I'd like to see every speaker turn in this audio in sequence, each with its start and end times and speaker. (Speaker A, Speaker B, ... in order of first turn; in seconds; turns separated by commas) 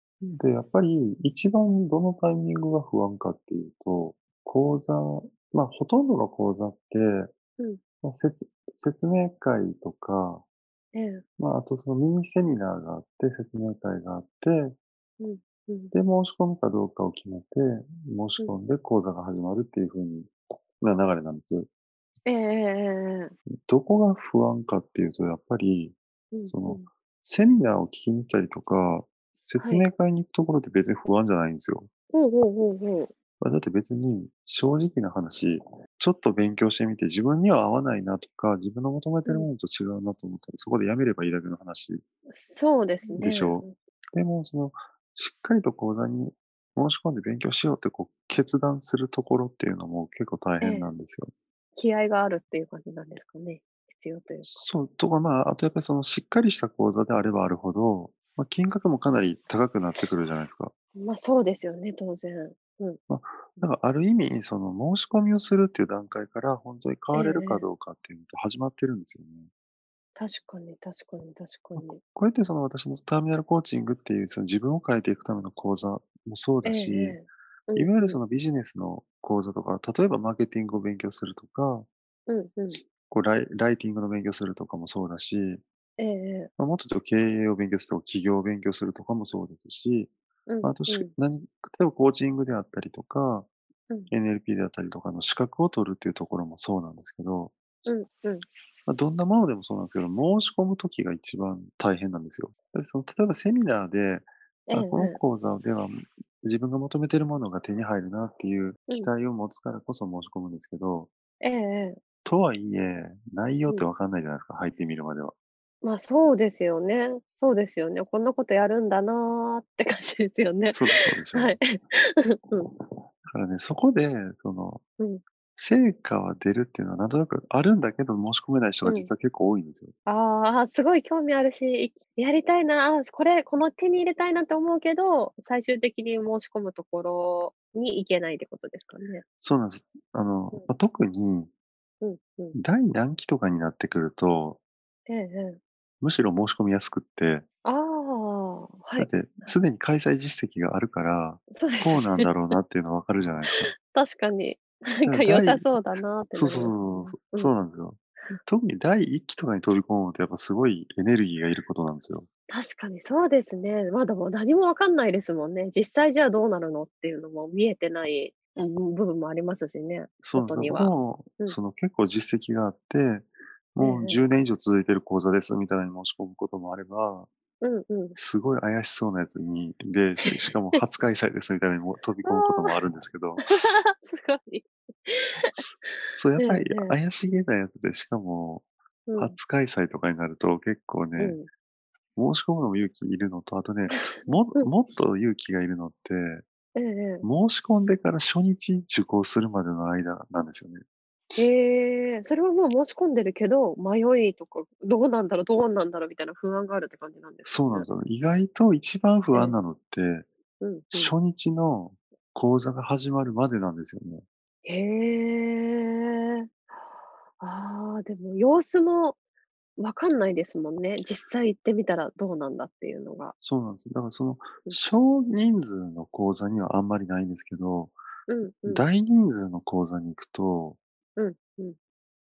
Speaker A: 0.2-7.3, Speaker A: 8.0-10.4, Speaker B: 10.9-11.2, Speaker A: 11.4-14.8, Speaker B: 15.2-15.9, Speaker A: 15.9-21.7, Speaker B: 22.2-23.3, Speaker A: 23.7-26.0, Speaker B: 26.3-26.9, Speaker A: 26.5-31.9, Speaker B: 29.6-29.9, Speaker B: 32.1-33.1, Speaker A: 33.4-42.0, Speaker B: 42.3-43.7, Speaker A: 43.2-51.3, Speaker B: 50.6-50.9, Speaker B: 51.8-54.5, Speaker A: 54.4-60.7, Speaker B: 61.0-63.0, Speaker A: 63.1-69.5, Speaker B: 67.1-67.6, Speaker B: 70.2-72.0, Speaker A: 71.8-77.2, Speaker B: 76.6-78.2, Speaker A: 77.7-81.9, Speaker B: 82.3-82.8, Speaker A: 83.0-85.6, Speaker B: 86.0-86.5, Speaker A: 86.6-90.1, Speaker B: 90.5-91.1, Speaker A: 90.6-93.5, Speaker A: 94.1-97.5, Speaker B: 97.8-98.4, Speaker A: 98.9-111.1, Speaker B: 104.7-105.2, Speaker B: 111.4-112.0, Speaker A: 112.2-115.3, Speaker B: 115.8-122.7, Speaker A: 120.7-121.6, Speaker A: 123.3-124.8, Speaker A: 125.6-129.9, Speaker B: 128.8-129.1, Speaker B: 130.1-139.2, Speaker A: 139.4-141.5, Speaker B: 142.0-142.6, Speaker A: 142.5-144.6, Speaker B: 145.1-145.6, Speaker A: 146.0-147.4, Speaker B: 147.6-149.1, Speaker A: 149.0-153.7, Speaker B: 151.5-152.3, Speaker B: 153.8-157.5, Speaker A: 155.0-155.7, Speaker A: 156.3-162.3, Speaker B: 162.5-171.6, Speaker A: 170.2-177.3, Speaker B: 173.8-174.2, Speaker B: 177.6-178.2, Speaker A: 178.2-183.8, Speaker B: 180.3-180.8, Speaker B: 182.2-182.7, Speaker B: 183.5-185.5, Speaker A: 185.5-191.4, Speaker B: 186.4-187.0, Speaker B: 189.1-189.3, Speaker B: 191.2-191.5, Speaker A: 192.2-196.4, Speaker B: 193.9-194.7, Speaker B: 196.7-197.2, Speaker A: 197.2-201.4, Speaker B: 201.4-207.8, Speaker A: 207.4-210.3, Speaker B: 210.6-211.1, Speaker A: 210.9-214.2, Speaker B: 214.6-216.5, Speaker B: 217.4-219.1, Speaker B: 219.8-223.3, Speaker A: 223.4-227.9, Speaker B: 228.3-228.8, Speaker A: 228.7-230.8, Speaker B: 231.2-231.8